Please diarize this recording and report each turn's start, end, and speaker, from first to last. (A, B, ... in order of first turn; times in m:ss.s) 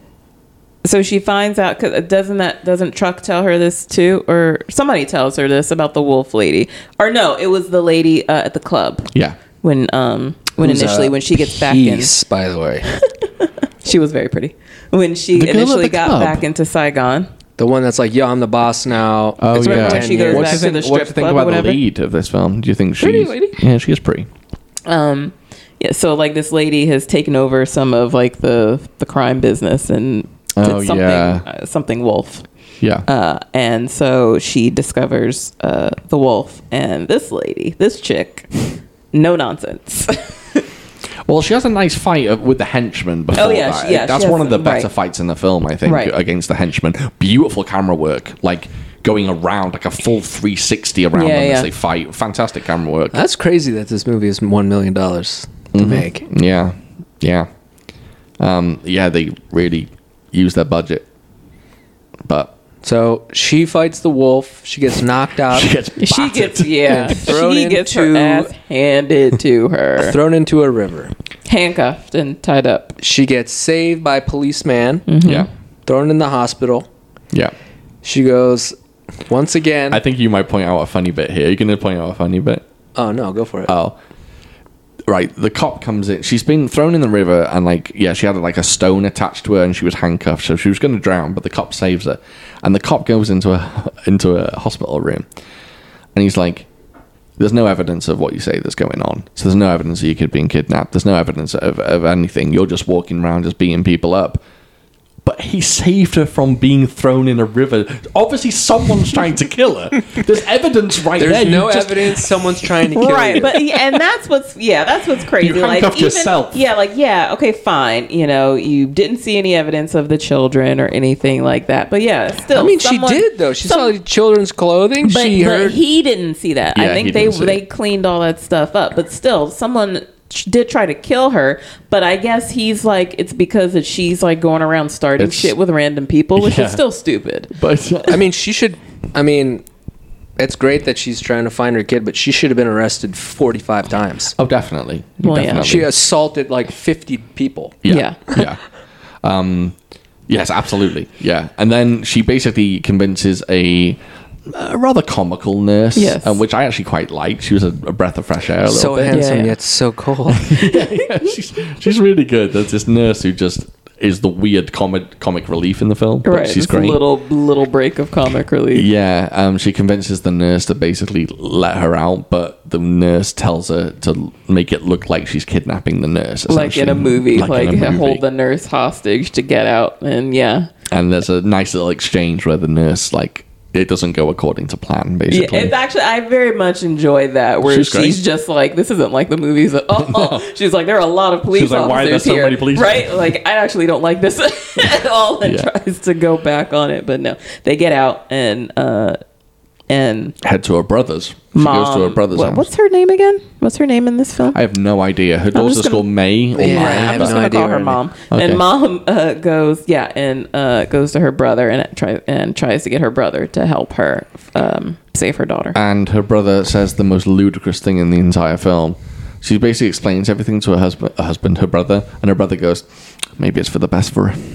0:00.8-0:09.1 A
0:09.1-0:09.4 B
0:09.6-0:12.1 A
0:10.6-0:12.9 C
0:12.9-0:17.3 A
0:15.3-0:16.4 B
0:17.6-0:20.6 C
0:19.4-0:24.3 B
0:19.6-0:21.8 A
0:23.0-0:23.6 C
0:24.8-0:32.4 A
0:30.6-0:31.4 B
0:32.8-0:33.0 B
0:33.1-0:40.6 A
0:41.3-0:53.2 B
0:43.4-0:44.9 A
0:45.8-0:46.1 A
0:51.1-0:51.7 A
0:53.1-0:56.2 C
0:55.7-0:57.5 B
0:58.4-1:01.0 B
1:02.2-1:02.5 B
1:02.8-1:05.8 C
1:05.5-1:07.3 B
1:06.0-1:10.2 A
1:06.8-1:08.5 C
1:10.0-1:11.1 C
1:11.5-1:13.0 A
1:13.0-1:15.0 C
1:15.1-1:15.5 A
1:15.2-1:15.5 B
1:15.8-1:16.9 C
1:18.0-1:18.8 C
1:19.3-1:20.0 C
1:19.9-1:22.6 B
1:23.0-1:23.7 C
1:23.7-1:24.0 B
1:25.1-1:35.3 B
1:36.1-1:36.7 B
1:37.4-1:44.4 B
1:45.2-1:52.4 B
1:51.2-1:53.6 C
1:52.9-2:03.9 A
1:55.4-1:56.6 B
2:02.5-2:05.8 C
2:05.0-2:17.5 A
2:06.7-2:07.6 B
2:15.2-2:15.5 B
2:16.4-2:16.8 B
2:17.5-2:18.2 B
2:18.1-2:19.6 C
2:20.4-2:24.3 C
2:24.4-2:25.9 B
2:25.2-2:25.8 A
2:25.6-2:27.8 C
2:27.8-2:28.6 B
2:27.9-2:28.4 A
2:29.2-2:29.7 B
2:30.3-2:39.2 B
2:36.0-2:36.4 A
2:38.6-2:40.5 C
2:39.1-2:39.5 A
2:40.3-2:47.0 B
2:46.2-2:48.9 A
2:48.7-2:58.2 B
2:56.5-3:00.7 A
3:00.9-3:05.7 B
3:05.3-3:19.2 A
3:07.6-3:08.2 B
3:10.0-3:10.4 B
3:11.5-3:13.2 B
3:15.4-3:15.7 B
3:19.9-3:20.4 A
3:20.4-3:22.7 B
3:21.5-3:24.6 A
3:24.5-3:27.4 B
3:25.5-3:26.0 A
3:26.6-3:28.0 C
3:26.6-3:35.8 A
3:28.3-3:28.6 B
3:35.7-3:42.8 B
3:43.4-3:44.4 B